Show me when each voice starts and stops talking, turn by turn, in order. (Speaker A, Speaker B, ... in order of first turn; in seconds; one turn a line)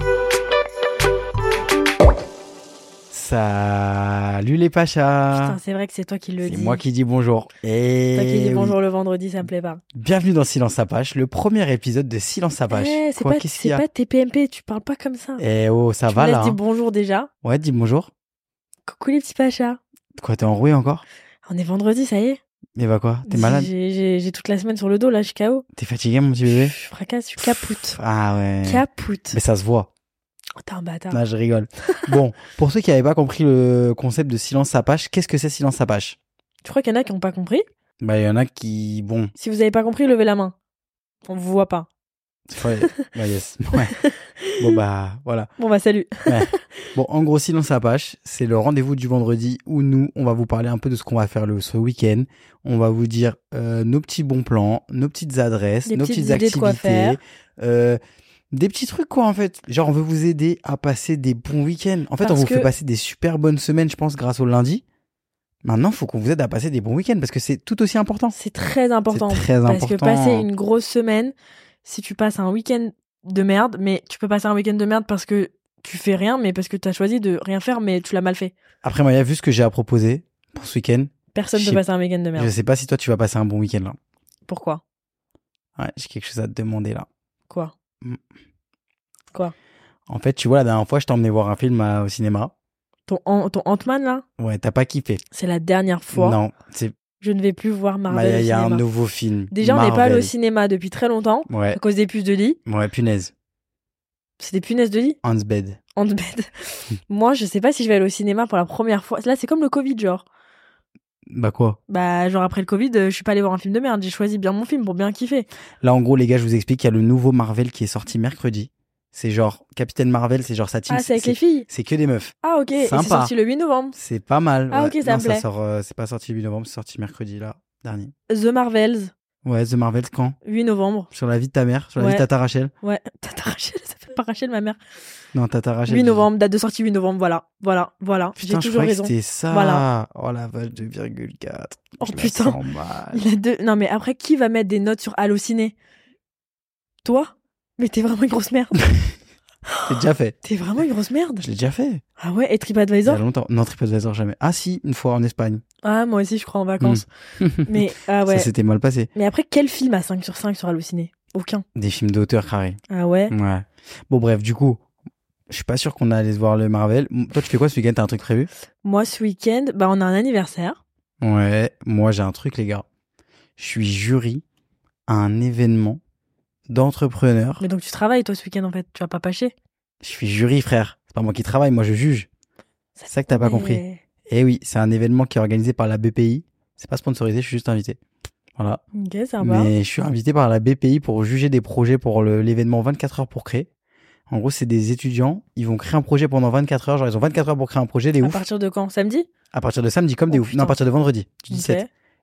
Speaker A: 3.1-5.6
Speaker B: 5.3-6.8
Speaker A: 6.4-8.8
Speaker B: 8.1-9.8
Speaker A: 9.9-13.8
Speaker B: 12.7-15.4
Speaker A: 15.4-16.6
Speaker B: 16.1-17.3
Speaker A: 17.4-18.1
Speaker B: 18.9-19.8
Speaker A: 20.2-21.0
Speaker B: 21.4-22.4
Speaker A: 22.8-23.7
Speaker B: 23.2-25.6
Speaker A: 25.7-26.7
Speaker B: 26.5-28.0
Speaker A: 27.4-29.9
Speaker B: 28.6-29.4
Speaker B: 30.6-31.2
Speaker A: 31.1-36.2
Speaker B: 36.6-37.6
Speaker A: 38.0-39.3
Speaker B: 39.4-40.5
Speaker B: 41.3-41.9
Speaker A: 42.5-43.9
Speaker B: 43.9-44.8
Speaker A: 44.6-45.5
Speaker B: 45.6-46.6
Speaker A: 46.2-58.0
Speaker B: 55.9-57.2
Speaker A: 58.5-64.8
Speaker B: 62.2-62.7
Speaker A: 65.6-68.3
Speaker B: 68.3-71.3
Speaker A: 69.1-70.5
Speaker B: 71.8-78.5
Speaker A: 78.8-81.8
Speaker B: 81.3-82.5
Speaker A: 82.3-84.0
Speaker B: 84.5-84.8
Speaker A: 85.8-87.1
Speaker A: 90.1-92.5
Speaker B: 93.0-94.2
Speaker A: 94.4-95.2
Speaker B: 95.3-96.4
Speaker A: 96.1-96.9
Speaker B: 97.2-98.9
Speaker A: 98.1-100.3
Speaker B: 99.5-102.6
Speaker A: 101.5-101.8
Speaker A: 102.7-103.3
Speaker B: 104.4-105.2
Speaker A: 105.2-105.8
Speaker B: 106.0-110.2
Speaker A: 111.3-111.8
Speaker B: 111.9-115.5
Speaker A: 115.8-123.3
Speaker B: 120.9-121.7
Speaker B: 122.4-124.0
Speaker A: 123.9-128.1
Speaker B: 124.7-125.5
Speaker B: 128.3-129.1
Speaker A: 129.4-130.4
Speaker B: 130.4-131.1
Speaker A: 131.1-132.7
Speaker B: 132.0-132.2
Speaker B: 132.8-134.8
Speaker A: 135.3-136.3
Speaker B: 135.9-139.8
Speaker A: 138.3-143.2
Speaker B: 142.0-142.6
Speaker B: 143.1-145.7
Speaker B: 147.0-148.9
Speaker B: 149.7-151.5
Speaker A: 149.9-150.4
Speaker A: 151.4-152.0
Speaker B: 152.2-153.2
Speaker A: 153.0-155.6
Speaker B: 155.8-157.1
Speaker A: 156.8-159.1
Speaker B: 157.6-158.5
Speaker B: 159.1-161.6
Speaker A: 161.7-162.8
Speaker B: 162.9-163.3
Speaker A: 163.3-164.8
Speaker A: 165.5-168.5
Speaker B: 168.8-170.8
Speaker A: 171.2-172.8
Speaker A: 173.6-174.4
Speaker A: 175.1-176.0
Speaker A: 176.7-177.6
Speaker B: 177.6-179.5
Speaker A: 180.0-182.3
Speaker B: 182.9-184.0
Speaker A: 183.1-188.0
Speaker B: 188.9-189.7
Speaker A: 189.4-193.7
Speaker A: 194.3-198.4
Speaker B: 198.2-199.3
Speaker A: 199.5-201.8
Speaker B: 200.3-200.8
Speaker B: 201.5-201.9